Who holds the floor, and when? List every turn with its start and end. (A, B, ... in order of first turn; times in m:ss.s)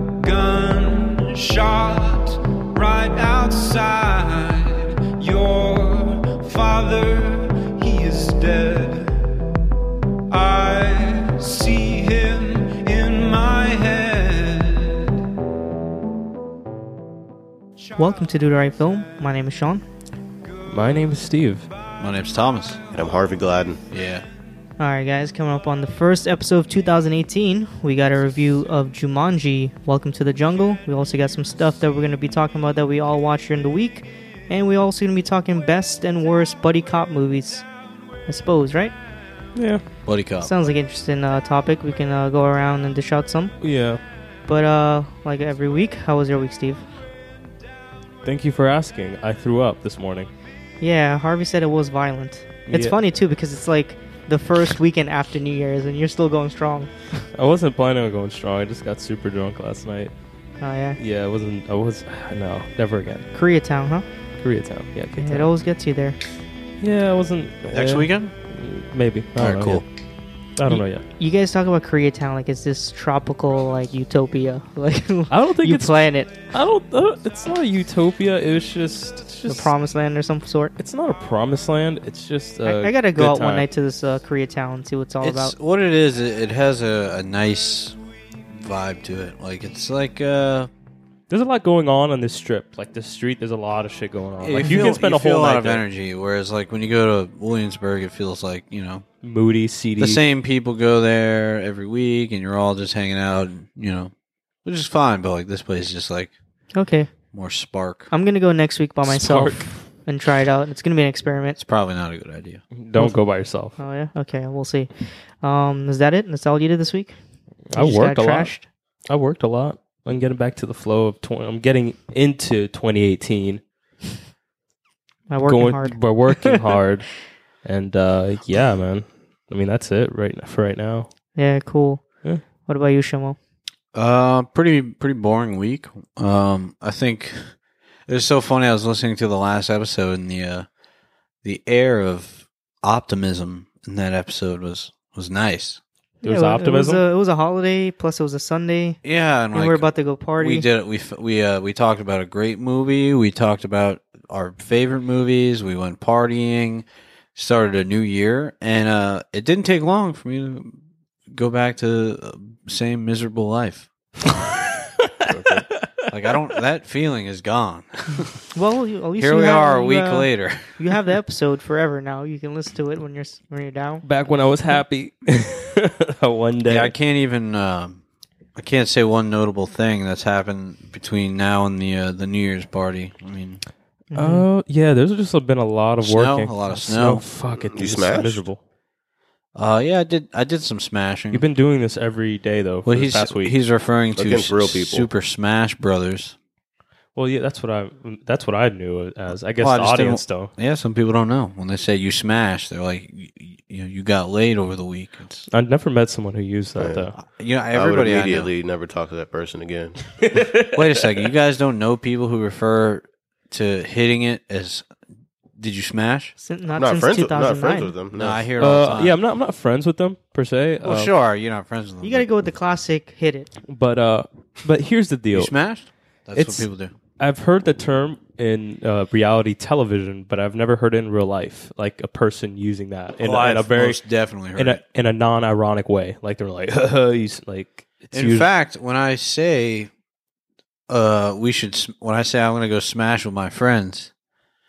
0:00.2-0:09.2 A
0:10.3-0:15.2 A
0:18.0-0:19.2 A
0:18.0-0:19.8 B
0:20.7-0:21.7 C
0:20.8-0:21.2 A
0:22.0-0:22.8 D
0:22.9-0:23.8 E
0:23.9-0:24.2 D
0:24.8-0:37.7 B
0:38.2-0:39.0 B
0:39.5-0:39.8 C
0:40.0-0:40.5 D
0:40.4-0:43.7 B
0:43.6-0:44.0 C
0:44.4-0:46.8 B
0:48.2-0:50.3 C
0:50.8-0:57.1 B
0:52.7-0:53.0 C
0:57.3-1:00.1 C
1:00.6-1:01.0 B
1:01.0-1:03.3 C
1:03.3-1:04.0 B
1:04.4-1:05.5 C
1:05.2-1:06.2 B
1:06.8-1:09.8 C
1:07.7-1:08.3 D
1:09.4-1:09.8 D
1:10.6-1:11.0 C
1:11.2-1:16.3 B
1:15.3-1:19.7 C
1:19.5-1:20.7 B
1:20.8-1:23.7 C
1:22.6-1:25.5 B
1:25.2-1:28.0 D
1:28.5-1:30.7 D
1:31.3-1:35.8 C
1:34.4-1:39.0 D
1:34.6-1:35.0 B
1:39.2-1:40.2 C
1:40.0-1:44.1 D
1:44.6-1:46.3 D
1:46.7-1:47.1 B
1:47.3-1:48.1 D
1:48.1-1:51.6 B
1:49.0-1:49.7 C
1:51.6-1:52.6 D
1:52.7-1:53.8 C
1:53.0-1:53.2 B
1:53.7-1:57.2 B
1:57.7-1:58.5 C
1:57.7-1:58.6 B
1:59.1-2:03.6 C
2:05.3-2:06.6 B
2:05.5-2:11.1 C
2:11.3-2:13.4 B
2:13.9-2:20.7 D
2:21.4-2:25.8 D
2:26.2-2:29.0 B
2:26.2-2:27.0 C
2:29.0-2:40.8 D
2:29.5-2:30.7 B
2:41.3-2:43.9 D
2:45.3-2:45.7 E
2:45.3-2:46.3 C
2:46.1-2:48.4 D
2:48.5-2:54.0 B
2:49.2-2:50.9 D
2:54.0-2:56.9 C
2:56.7-2:58.0 D
2:58.6-3:03.6 D
3:04.1-3:04.4 B
3:04.1-3:08.6 C
3:06.0-3:07.3 D
3:07.6-3:08.4 E
3:09.5-3:11.4 D
3:11.3-3:13.6 C
3:12.8-3:16.3 D
3:14.1-3:15.1 E
3:17.2-3:20.5 C
3:19.6-3:25.5 D
3:25.5-3:27.1 C
3:26.8-3:27.1 E
3:27.2-3:28.5 D
3:27.7-3:30.5 E
3:30.2-3:31.0 C
3:30.7-3:34.9 D
3:35.6-3:36.3 D
3:36.4-3:37.9 B
3:36.7-3:38.5 E
3:38.2-3:39.2 D
3:38.6-3:41.1 C
3:40.8-3:42.3 D
3:42.0-3:43.5 B
3:43.7-3:45.5 C
3:45.3-3:46.9 D
3:46.3-3:46.7 C
3:47.2-3:54.0 C
3:53.2-3:54.8 D
3:54.5-3:58.5 C
3:58.1-3:59.9 D
4:00.9-4:04.1 D